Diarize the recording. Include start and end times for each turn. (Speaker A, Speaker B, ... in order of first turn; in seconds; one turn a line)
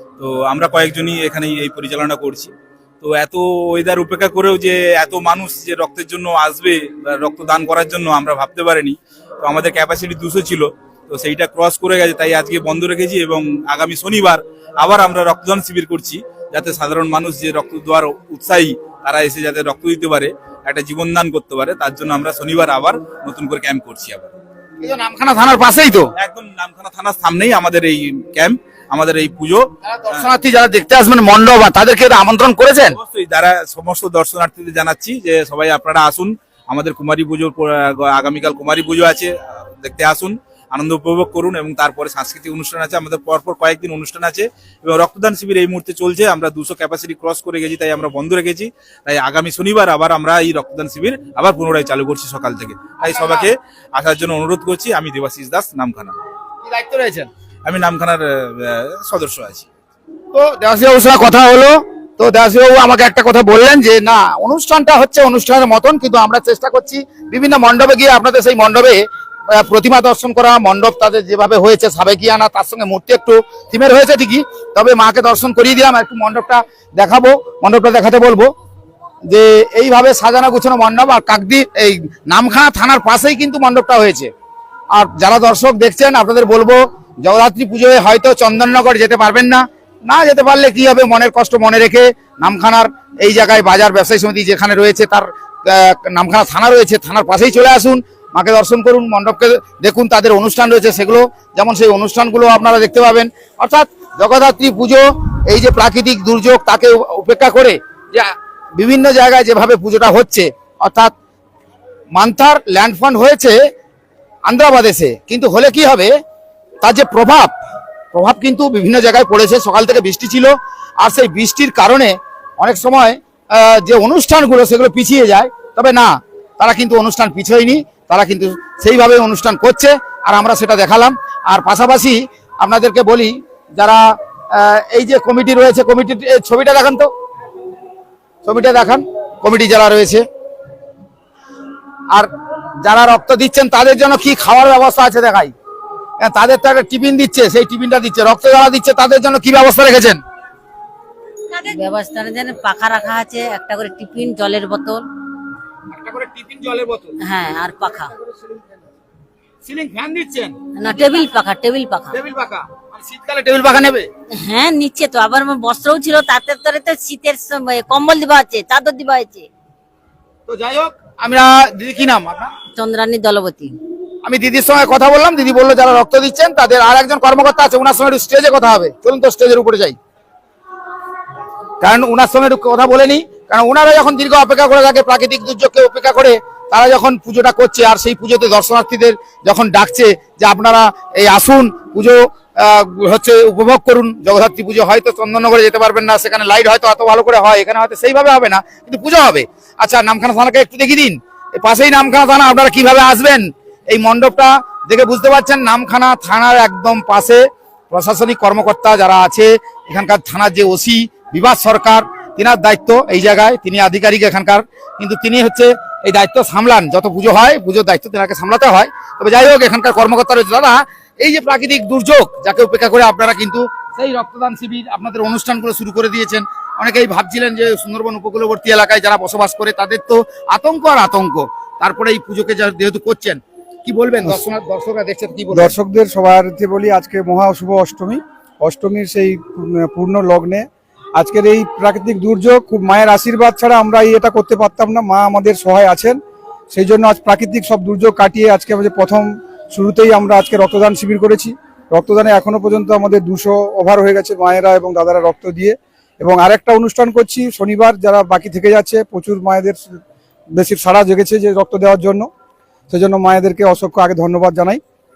Speaker A: 0.2-24.3
Speaker B: 24.8-26.1
Speaker A: 26.2-30.2
Speaker B: 29.8-33.0
Speaker A: 33.0-56.1
Speaker B: 53.0-53.5
Speaker B: 56.6-57.3
Speaker A: 57.6-59.7
Speaker B: 60.3-78.5
Speaker B: 79.3-84.3
Speaker B: 84.9-111.1
Speaker B: 112.1-113.6
Speaker B: 114.5-116.1
Speaker B: 116.8-117.5
Speaker B: 118.1-137.1
Speaker B: 138.4-140.2
Speaker B: 142.8-145.5
Speaker B: 146.2-150.2
Speaker C: 151.5-155.0
Speaker B: 155.9-157.2
Speaker C: 157.2-158.1
Speaker B: 159.6-160.6
Speaker C: 160.7-162.2
Speaker B: 162.1-164.1
Speaker C: 164.4-169.5
Speaker B: 170.5-172.5
Speaker C: 172.7-173.8
Speaker B: 174.2-180.0
Speaker B: 181.8-235.7
Speaker D: 235.5-246.2
Speaker D: 246.7-260.0
Speaker D: 260.5-262.3
Speaker D: 262.9-264.8